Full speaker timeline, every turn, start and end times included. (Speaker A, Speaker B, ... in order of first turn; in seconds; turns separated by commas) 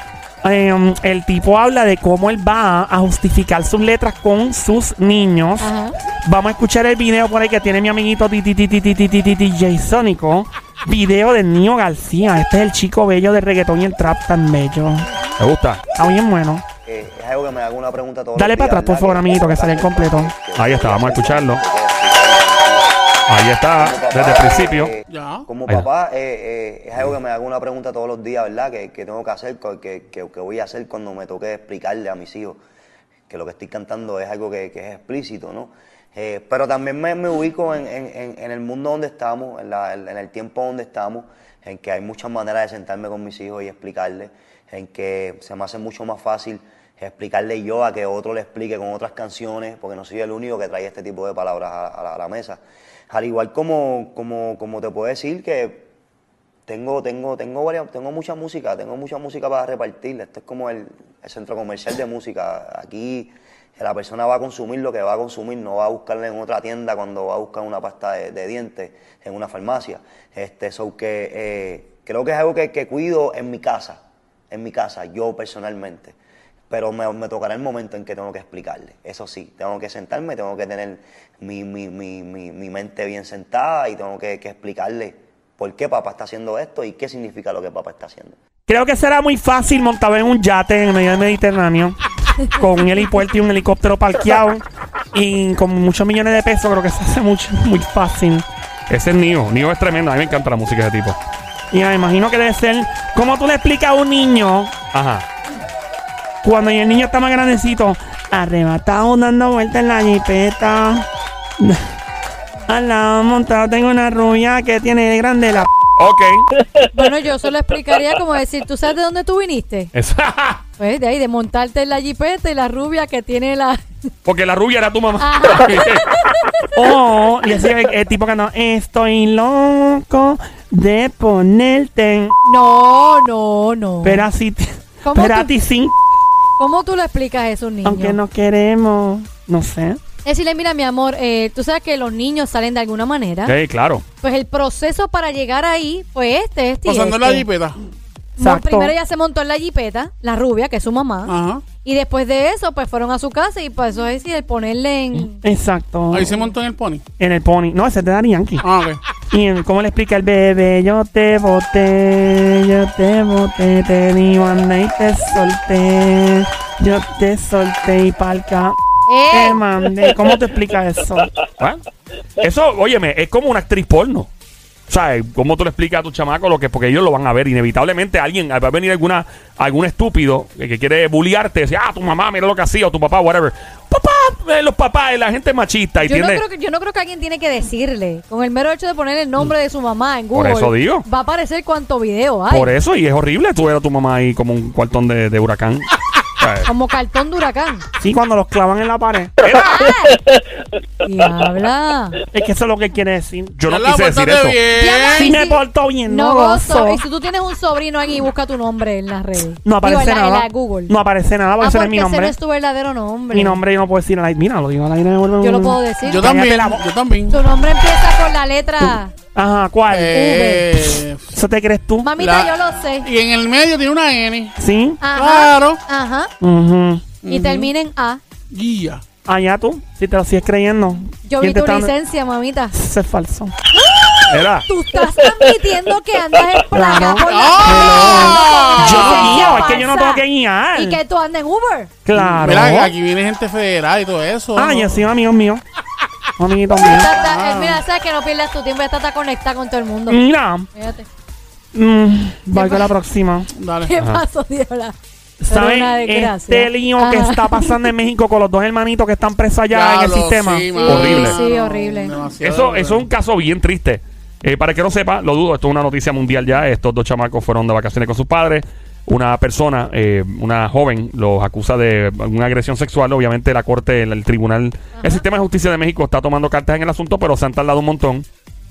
Speaker A: 0.4-5.7, Speaker B: 5.6-6.0, Speaker A: 6.2-15.1, Speaker C: 15.4-15.8, Speaker A: 16.0-16.7, Speaker D: 16.9-23.0, Speaker A: 18.4-20.3, Speaker C: 20.6-21.6, Speaker C: 23.3-24.9, Speaker D: 23.8-32.6, Speaker E: 25.1-25.5, Speaker D: 33.3-55.9, Speaker D: 56.7-76.2, Speaker D: 76.7-88.4, Speaker A: 88.7-92.0, Speaker A: 92.5-98.5, Speaker C: 98.9-101.2, Speaker A: 101.7-104.8, Speaker C: 104.9-105.2, Speaker A: 106.4-111.1, Speaker A: 111.6-111.8, Speaker A: 112.7-115.7, Speaker C: 116.0-116.5, Speaker B: 116.9-119.9, Speaker C: 119.9-120.6, Speaker B: 120.8-123.8, Speaker C: 124.2-126.0, Speaker B: 125.2-126.7, Speaker A: 126.7-132.4, Speaker B: 132.4-134.3, Speaker A: 134.0-136.0, Speaker B: 135.0-135.5, Speaker B: 136.6-138.2, Speaker A: 137.8-140.0, Speaker B: 140.2-143.6, Speaker C: 143.5-144.0, Speaker B: 144.2-147.5, Speaker E: 146.8-147.8, Speaker B: 148.4-155.4, Speaker A: 148.4-148.9, Speaker E: 151.3-151.6, Speaker A: 155.4-156.3, Speaker E: 156.1-157.0, Speaker A: 157.2-158.6, Speaker E: 158.6-159.0, Speaker A: 159.3-168.8, Speaker B: 169.1-169.6, Speaker A: 169.3-171.3, Speaker C: 172.4-174.3, Speaker C: 174.9-186.4, Speaker B: 186.0-192.8, Speaker C: 190.3-191.1, Speaker C: 192.5-196.7, Speaker B: 196.7-197.8, Speaker A: 198.0-199.3, Speaker C: 199.4-199.8, Speaker B: 199.4-200.2, Speaker B: 201.0-202.2, Speaker A: 202.3-203.6, Speaker C: 203.6-204.6, Speaker E: 203.7-205.3, Speaker B: 204.8-210.9, Speaker A: 205.2-207.0, Speaker A: 209.7-212.3, Speaker B: 211.6-213.6, Speaker A: 213.3-216.8, Speaker B: 215.4-216.3, Speaker E: 216.1-217.4, Speaker B: 217.3-219.1, Speaker A: 218.8-220.5, Speaker E: 219.9-221.3, Speaker B: 220.2-220.6, Speaker A: 221.3-222.1, Speaker B: 222.0-223.1, Speaker E: 222.2-224.6, Speaker A: 224.6-225.0, Speaker B: 225.0-226.3, Speaker E: 225.1-225.8, Speaker A: 226.4-227.1, Speaker E: 227.2-227.7, Speaker B: 227.3-228.2, Speaker E: 228.5-229.0, Speaker A: 229.3-231.9, Speaker B: 231.3-232.8, Speaker A: 232.7-233.5, Speaker B: 233.9-241.9, Speaker C: 234.3-234.7, Speaker A: 236.7-241.0, Speaker E: 237.2-239.7, Speaker A: 242.1-242.9, Speaker E: 242.1-245.0, Speaker A: 244.6-245.6, Speaker A: 246.4-247.1, Speaker B: 246.8-250.2, Speaker E: 247.1-247.8, Speaker A: 250.1-250.7, Speaker B: 250.7-251.1, Speaker A: 251.7-253.5, Speaker B: 252.5-252.9, Speaker E: 253.6-253.9, Speaker B: 253.8-255.0, Speaker A: 255.4-260.7, Speaker B: 255.5-257.9, Speaker E: 259.7-263.1, Speaker B: 260.7-262.2, Speaker C: 260.9-261.4, Speaker C: 262.4-278.3